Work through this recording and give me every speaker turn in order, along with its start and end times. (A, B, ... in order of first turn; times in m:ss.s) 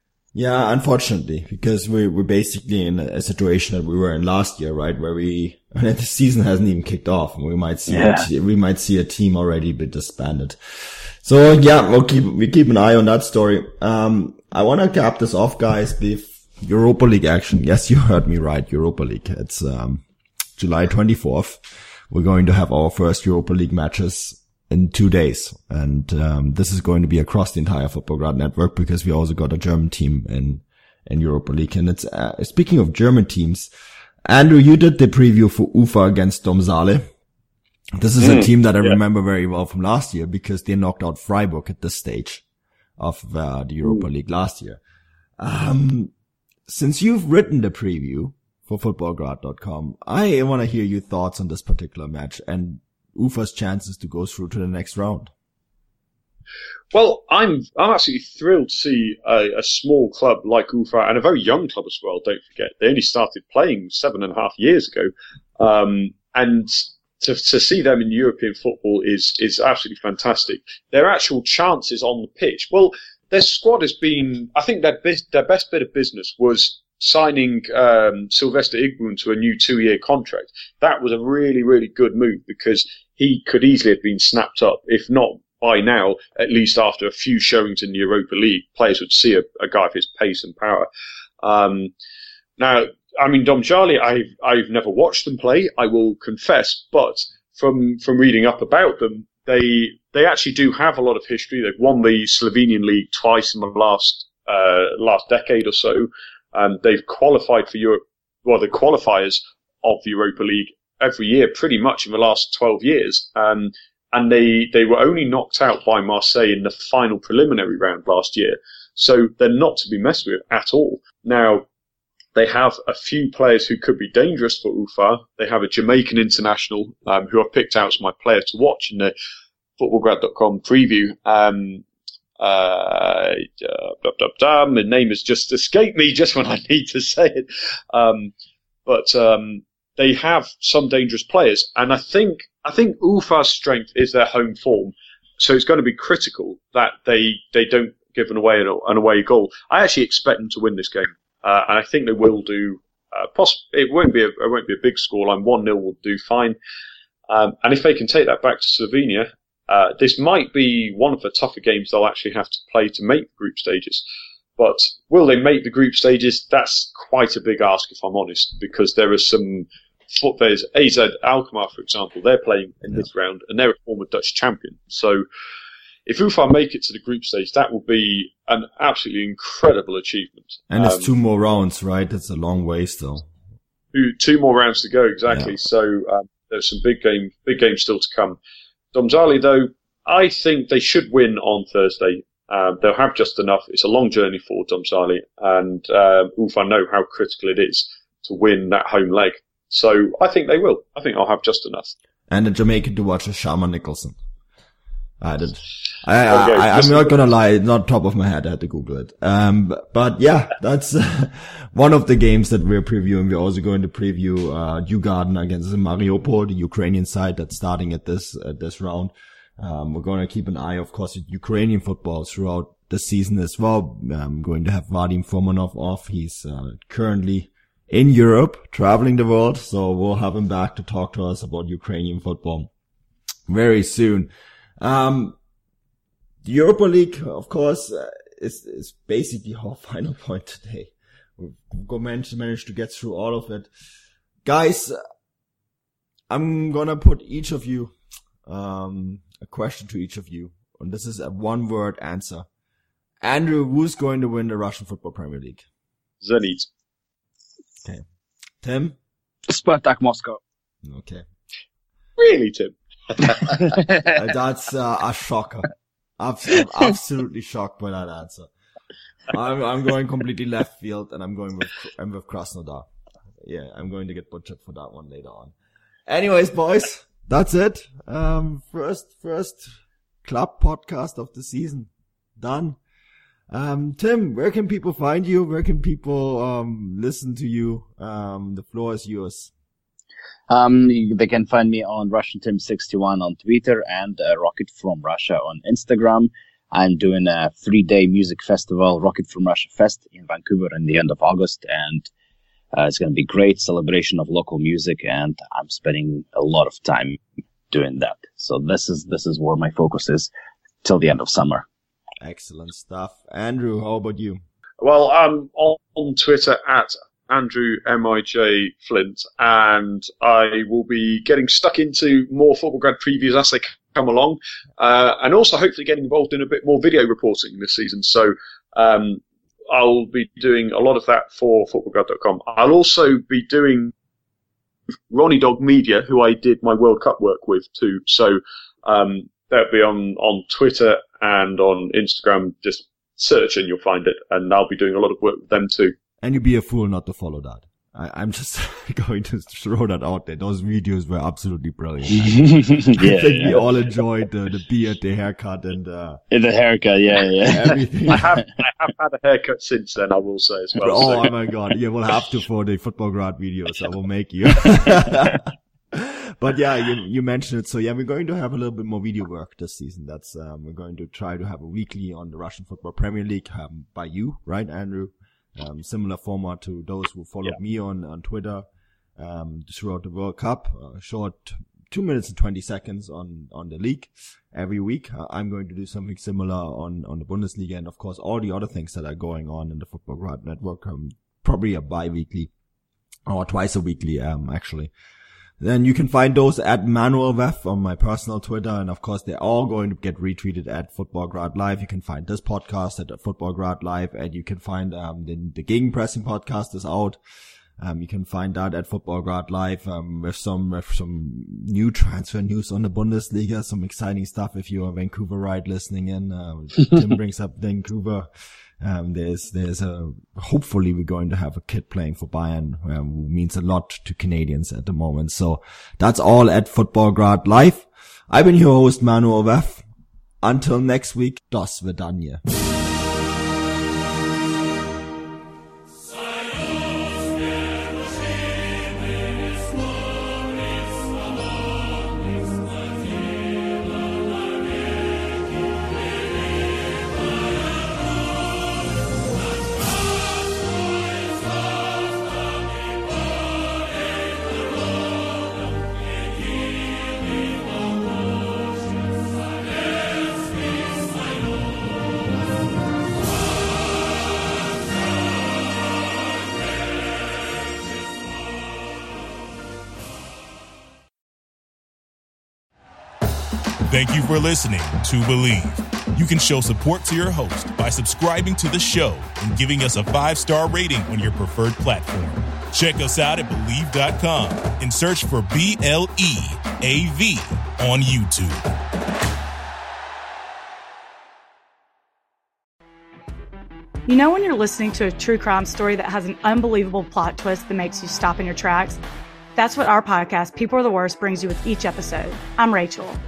0:00.3-0:20.0 A
0:07.9-0:08.3 B
0:20.6-0:33.7 A
0:34.3-0:37.1 A
0:38.0-0:42.4 A
0:38.2-0:39.0 C
0:43.0-0:44.8 A
0:45.4-0:46.1 A
0:46.7-0:55.3 A
0:56.9-1:30.9 C
1:31.4-1:31.9 C
1:32.6-2:01.7 C
2:02.4-2:09.1 C
2:09.8-2:11.8 C
2:12.4-2:18.3 C
2:18.9-2:36.6 C
2:37.3-2:44.0 C
2:44.6-2:55.2 C
2:56.1-3:01.1 C
3:00.7-3:03.3 A
3:03.9-3:08.4 C
3:05.3-3:05.6 A
3:08.9-3:21.9 C
3:22.3-3:24.2 A
3:25.2-3:52.7 A
3:26.3-3:27.1 C
3:53.5-3:55.4 A
3:56.4-4:03.7 A
4:04.4-4:05.0 A
4:06.3-4:12.5 A
4:13.2-4:15.6 A
4:16.2-4:16.7 C
4:18.6-4:19.0 A
4:19.5-4:20.4 B
4:20.8-4:21.2 A
4:22.2-4:23.8 C
4:24.1-4:28.5 A
4:29.3-4:32.9 A
4:33.4-4:35.5 A
4:36.1-4:42.8 A
4:43.5-4:49.5 A
4:50.5-5:02.1 B
5:02.7-5:07.2 B
5:07.7-5:10.3 B
5:10.8-5:11.6 B
5:12.2-5:14.4 A
5:14.8-5:33.9 C
5:35.1-5:45.9 C
5:46.2-5:56.2 A
5:52.1-5:53.6 B
5:56.3-5:58.2 B
5:57.5-5:58.3 A
5:58.1-6:01.3 C
6:00.8-6:18.6 A
6:19.2-6:32.5 A
6:33.3-6:34.9 A
6:35.6-6:47.2 A
6:47.8-6:58.3 A
6:58.8-7:09.9 A
7:10.4-7:12.4 A
7:53.9-8:08.7 D
8:14.1-8:19.0 E
8:19.6-8:23.2 E